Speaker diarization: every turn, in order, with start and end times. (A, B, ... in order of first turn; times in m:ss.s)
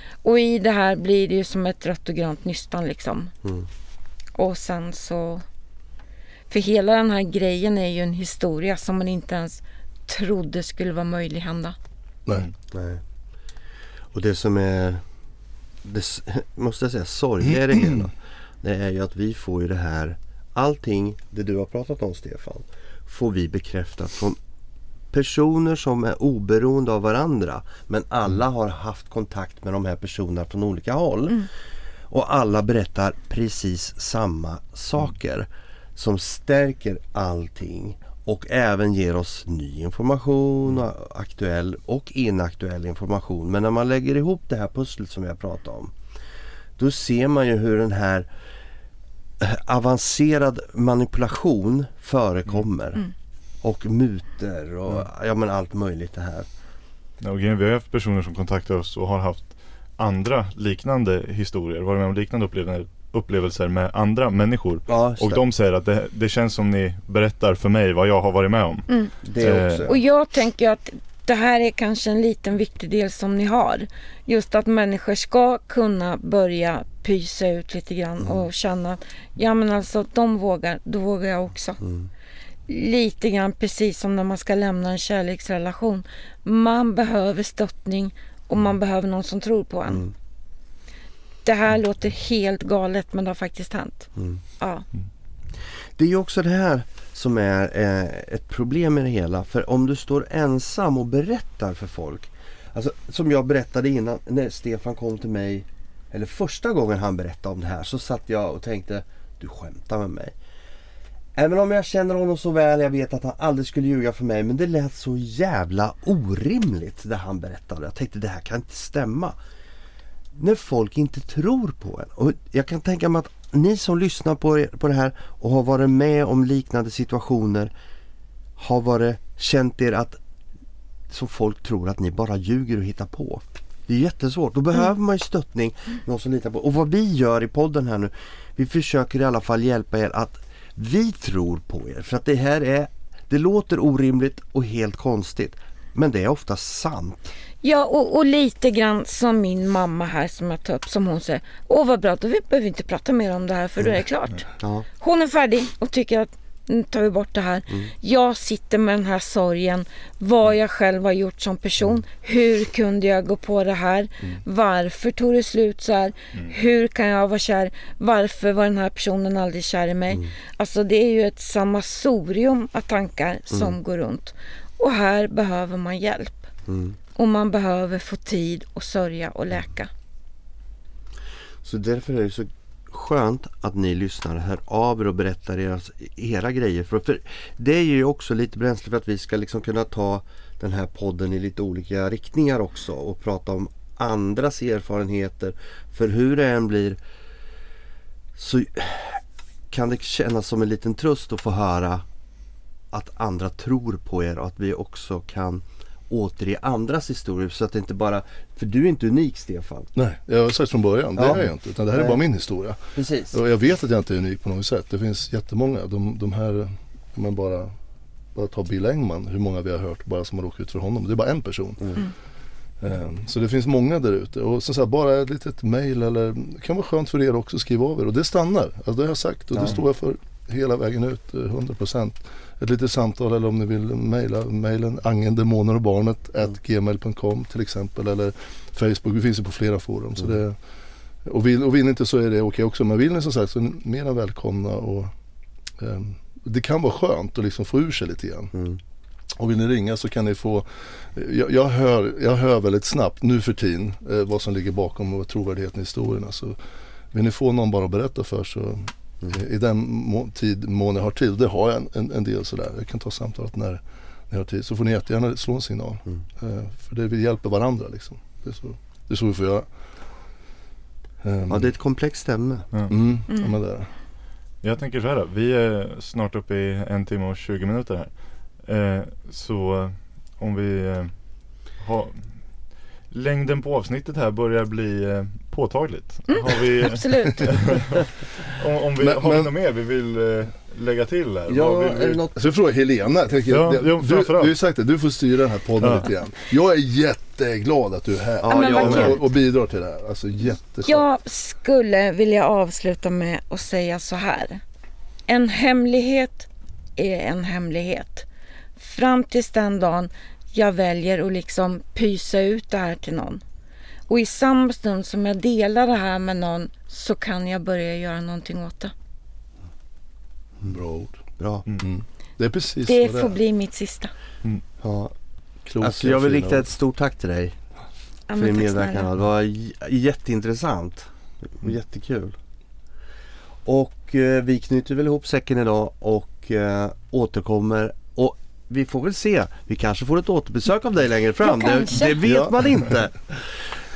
0:00.2-0:03.3 A
0:04.4-0:05.4 A
0:06.5-0:11.8 A
0:12.7-0:13.0 B
0:14.1-0:15.0 B
0:15.8-0:24.4 B
0:17.7-0:18.0 C
0:25.1-0:31.5 B
0:32.1-0:45.9 B
0:46.8-0:48.3 B
0:49.4-0:53.0 B
0:53.6-0:56.5 B
0:57.2-1:09.9 D
1:04.9-1:05.4 B
1:09.2-1:10.0 B
1:09.8-1:21.8 A
1:21.8-1:22.1 B
1:22.7-1:30.0 A
1:29.9-1:30.1 B
1:31.4-1:34.8 A
1:34.2-1:34.4 B
1:36.0-1:50.3 B
1:51.4-1:59.4 B
2:00.3-2:07.7 B
2:08.6-2:10.2 B
2:11.1-2:27.3 B
2:27.6-2:56.5 A
2:34.6-2:34.8 B
2:56.7-2:57.0 B
2:57.2-2:59.9 A
3:01.6-3:17.0 B
3:18.3-3:22.0 B
3:22.9-3:29.9 B
3:30.0-3:37.7 C
3:31.2-3:32.2 B
3:32.9-3:33.4 B
3:38.3-3:42.0 C
3:42.8-4:00.6 C
4:01.2-4:05.1 C
4:05.8-4:08.5 C
4:08.5-4:08.8 B
4:09.4-4:16.6 C
4:17.1-4:29.7 C
4:31.2-4:31.7 C
4:31.5-4:32.7 B
4:32.9-4:33.9 C
4:34.6-4:38.1 D
4:38.6-4:41.1 D
4:41.8-4:42.2 D
4:43.1-4:52.2 D
4:46.3-4:47.7 A
4:49.0-4:49.5 C
4:51.5-4:52.4 B
4:52.4-5:01.0 C
4:53.5-4:54.5 D
4:55.8-4:56.1 D
4:58.4-4:59.2 B
4:58.5-4:59.2 A
5:00.8-5:04.6 A
5:05.3-5:08.3 A
5:08.8-5:13.4 A
5:14.1-5:18.9 A
5:20.6-5:21.2 C
5:21.4-5:21.6 B
5:21.8-5:23.4 C
5:22.8-5:24.1 A
5:24.8-5:25.1 B
5:25.6-5:26.7 C
5:25.8-5:27.6 B
5:28.3-5:29.1 A
5:28.4-5:32.4 B
5:33.6-5:43.5 B
5:41.4-5:42.2 A
5:42.2-5:42.8 C